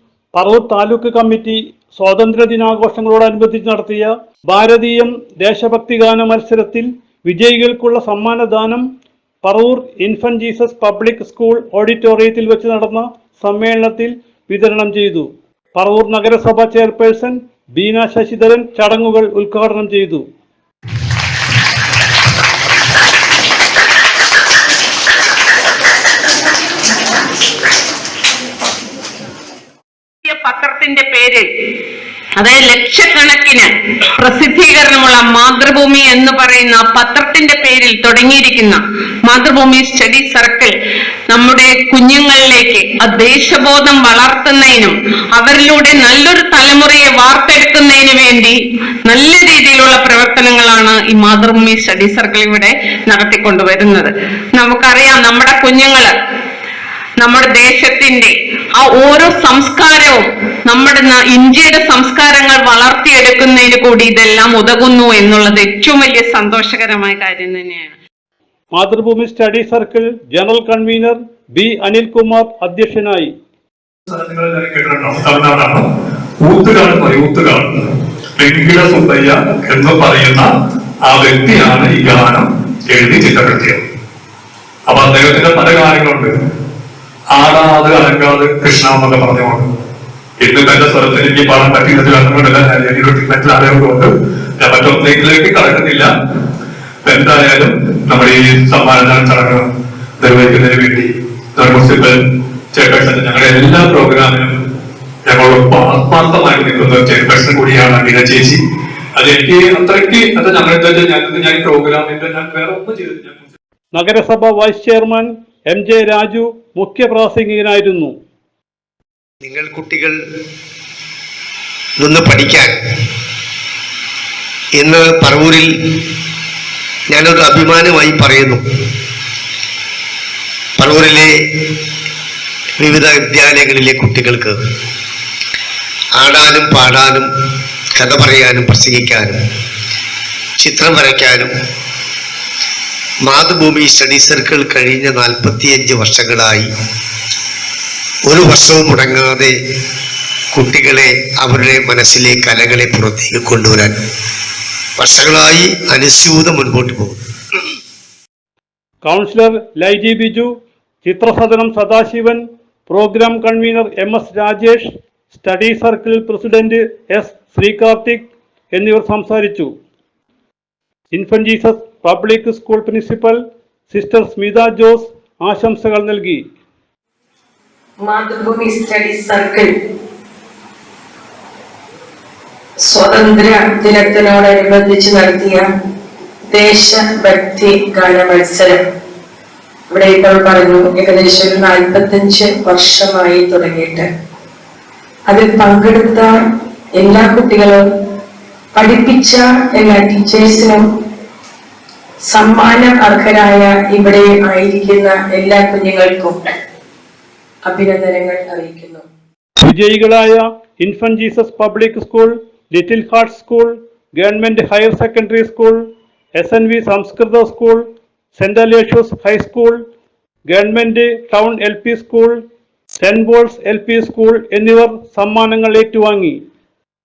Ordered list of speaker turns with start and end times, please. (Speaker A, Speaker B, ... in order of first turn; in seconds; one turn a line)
Speaker A: 0.3-8.8
Speaker A: 9.4-20.2
Speaker B: 30.2-31.5
Speaker B: 32.4-40.7
Speaker B: 41.3-56.1
Speaker B: 57.2-67.9
Speaker A: 68.7-73.3
Speaker C: 74.1-75.8
Speaker C: 76.4-80.5
Speaker C: 81.0-83.8
Speaker C: 84.9-86.3
Speaker C: 87.3-89.7
Speaker C: 90.4-94.1
Speaker C: 94.6-96.1
Speaker C: 97.0-99.6
Speaker C: 100.2-102.2
Speaker C: 102.7-104.5
Speaker C: 105.3-108.6
Speaker C: 109.2-113.5
Speaker A: 113.9-118.1
Speaker D: 119.4-120.2
Speaker D: 122.0-122.8
Speaker D: 124.8-125.7
Speaker D: 127.1-128.6
Speaker D: 130.8-131.3
Speaker D: 132.8-134.6
Speaker D: 136.2-137.3
Speaker D: 137.9-139.4
Speaker D: 140.6-141.5
Speaker D: 143.2-146.7
Speaker D: 148.3-149.5
Speaker D: 150.5-153.9
Speaker D: 155.0-157.2
Speaker A: 159.0-160.5
Speaker A: 161.0-169.7
Speaker A: 171.1-173.4
Speaker A: 173.9-176.4
Speaker E: 178.0-179.7
Speaker E: 182.8-185.7
Speaker E: 186.5-188.8
Speaker E: 189.9-194.1
Speaker E: 195.3-196.3
Speaker E: 197.0-197.8
Speaker E: 198.7-200.8
Speaker E: 202.2-206.4
Speaker E: 207.6-209.0
Speaker A: 209.6-215.8
Speaker A: 216.3-219.8
Speaker A: 220.5-222.4
Speaker A: 223.0-226.4